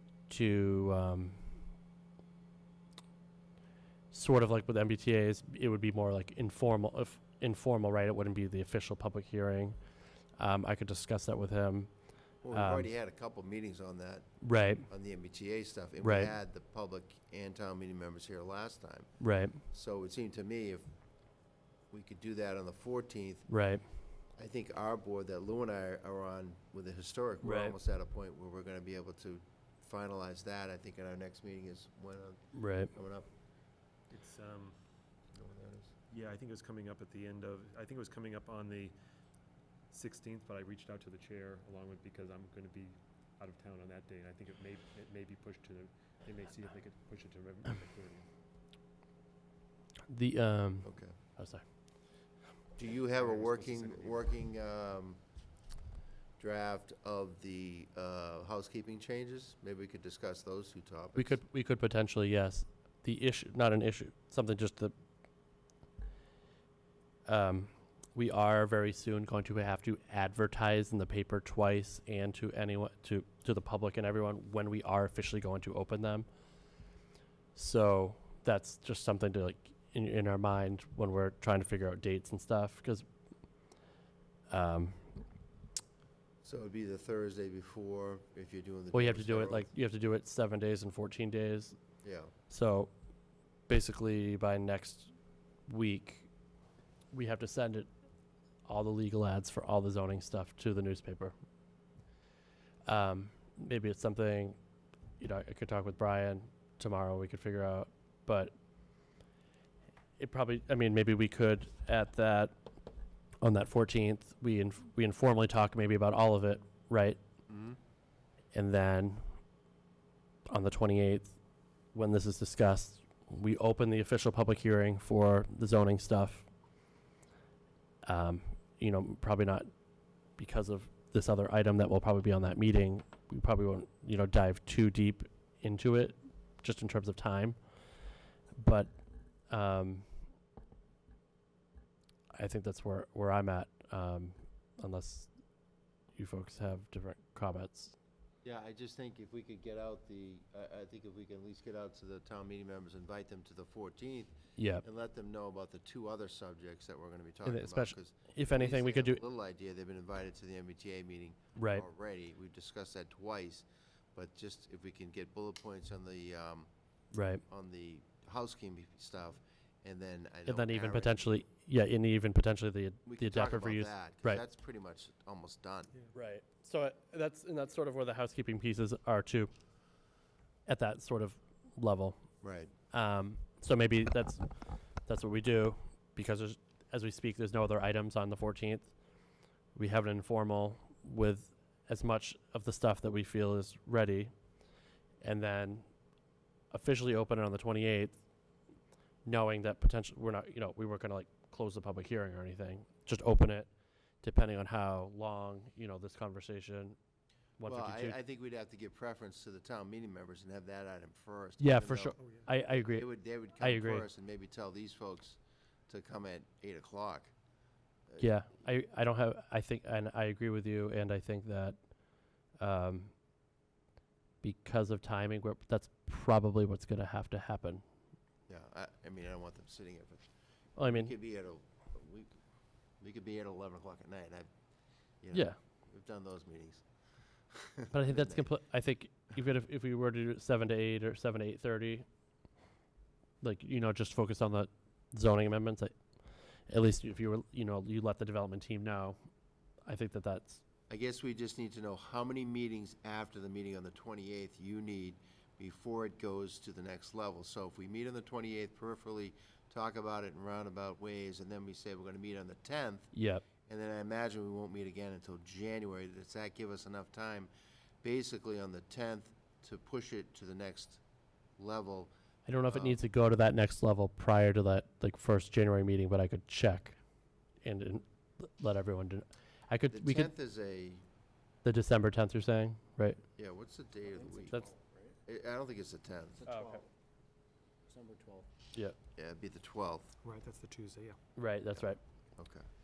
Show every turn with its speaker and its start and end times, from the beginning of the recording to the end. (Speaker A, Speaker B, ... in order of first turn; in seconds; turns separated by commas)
Speaker A: 0.3-1.4, Speaker A: 4.1-12.9, Speaker B: 12.4-20.9, Speaker A: 14.4-14.9, Speaker A: 16.0-16.3, Speaker A: 19.2-19.6, Speaker B: 21.9-23.5, Speaker A: 23.5-23.9, Speaker B: 24.4-33.3, Speaker A: 27.4-27.8, Speaker A: 32.5-32.9, Speaker C: 34.1-34.8, Speaker B: 35.3-35.9, Speaker C: 36.1-38.9, Speaker C: 39.9-48.3, Speaker A: 50.1-51.6, Speaker B: 50.8-51.2, Speaker B: 52.8-55.2, Speaker C: 53.1-54.2, Speaker B: 56.4-61.4, Speaker A: 61.2-64.9, Speaker A: 67.2-76.3, Speaker A: 77.5-83.1, Speaker A: 84.5-85.2, Speaker B: 86.4-89.7, Speaker A: 88.9-91.8, Speaker B: 92.0-92.3, Speaker A: 92.5-93.0, Speaker A: 93.7-95.1, Speaker A: 95.7-96.3, Speaker A: 97.1-97.9, Speaker A: 98.7-101.3, Speaker A: 102.8-104.6, Speaker A: 105.2-108.5, Speaker A: 110.2-112.6, Speaker A: 113.4-117.2, Speaker B: 117.5-117.8, Speaker A: 118.5-119.2, Speaker A: 120.5-121.4, Speaker A: 121.9-126.5, Speaker A: 128.0-138.9, Speaker A: 139.5-140.1, Speaker A: 142.3-145.4, Speaker A: 146.1-147.9, Speaker B: 148.4-166.7, Speaker A: 154.6-154.8, Speaker A: 157.4-159.2, Speaker A: 161.6-161.8, Speaker A: 167.1-167.4, Speaker B: 167.5-171.4, Speaker A: 170.5-174.4, Speaker B: 173.1-175.9, Speaker A: 176.1-179.5, Speaker A: 180.7-182.3, Speaker B: 182.4-182.7, Speaker A: 182.9-188.9, Speaker A: 189.7-194.3, Speaker A: 195.2-195.9, Speaker A: 196.7-198.2, Speaker A: 199.2-203.7, Speaker A: 204.2-207.0, Speaker A: 207.6-208.2, Speaker B: 207.7-217.3, Speaker A: 211.6-214.1, Speaker C: 212.2-212.5, Speaker B: 218.1-218.4, Speaker A: 218.2-223.2, Speaker A: 224.4-227.8, Speaker B: 228.5-230.3, Speaker A: 230.8-231.1, Speaker B: 230.8-232.4, Speaker B: 233.0-234.5, Speaker B: 235.2-236.9, Speaker A: 235.3-235.6, Speaker B: 237.5-238.5, Speaker A: 237.9-242.1, Speaker A: 243.4-245.9, Speaker A: 246.7-249.2, Speaker A: 249.9-250.6, Speaker B: 250.9-263.1, Speaker A: 263.1-263.4, Speaker B: 263.7-267.5, Speaker B: 268.0-271.0, Speaker B: 271.6-272.1, Speaker A: 272.5-277.0, Speaker B: 272.7-273.0, Speaker A: 277.6-280.3, Speaker B: 279.9-281.0, Speaker A: 281.6-283.2, Speaker B: 283.4-284.6, Speaker D: 284.1-285.2, Speaker B: 285.3-286.5, Speaker D: 286.4-286.9, Speaker C: 286.5-286.8, Speaker D: 287.9-288.5, Speaker B: 289.1-290.1, Speaker C: 290.2-291.2, Speaker A: 291.4-292.0, Speaker B: 291.7-292.6